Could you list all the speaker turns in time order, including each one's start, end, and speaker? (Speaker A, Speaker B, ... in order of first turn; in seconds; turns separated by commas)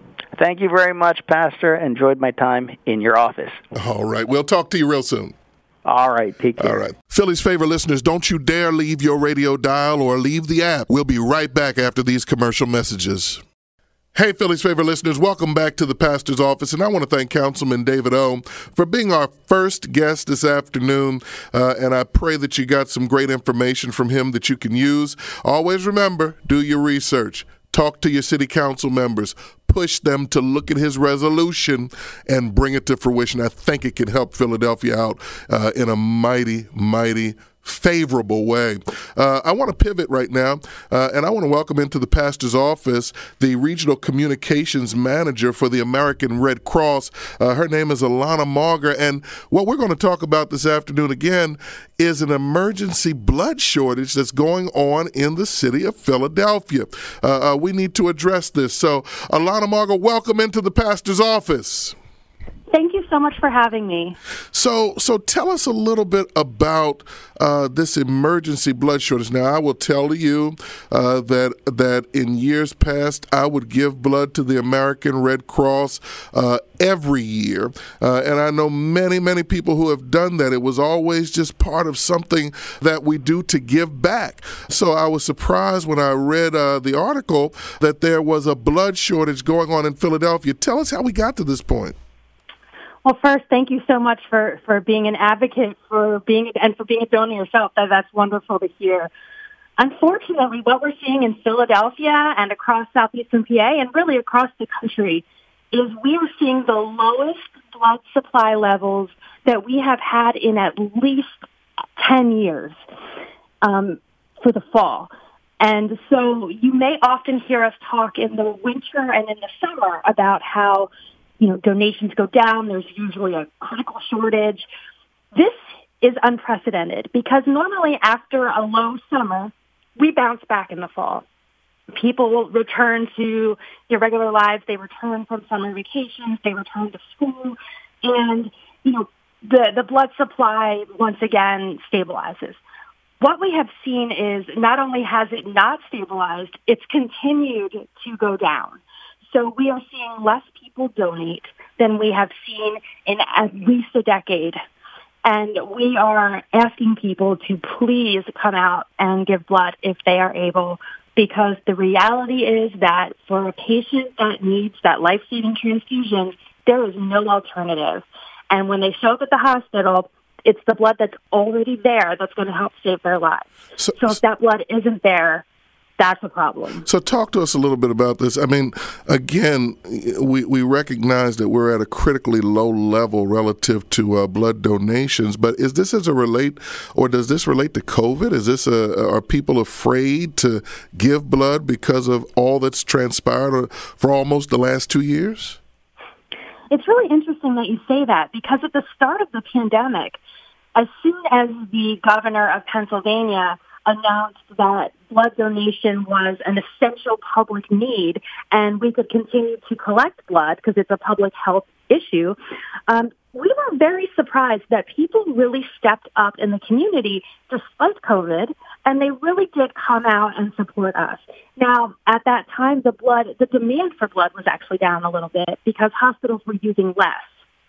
Speaker A: 0.4-3.6, Speaker B: 3.7-5.3, Speaker A: 5.8-6.9, Speaker B: 6.6-13.4, Speaker B: 14.1-61.9, Speaker C: 62.7-64.2, Speaker B: 64.5-92.0, Speaker C: 93.0-99.1, Speaker C: 99.8-111.4, Speaker C: 112.0-112.8, Speaker C: 113.6-120.9, Speaker C: 121.4-124.7, Speaker C: 125.3-131.2, Speaker C: 131.9-142.6, Speaker C: 143.2-154.6, Speaker C: 155.2-173.5, Speaker B: 173.8-174.2, Speaker C: 174.0-175.4, Speaker C: 176.0-176.8, Speaker B: 176.8-195.6, Speaker C: 196.7-200.2, Speaker C: 200.7-212.3, Speaker C: 212.9-227.4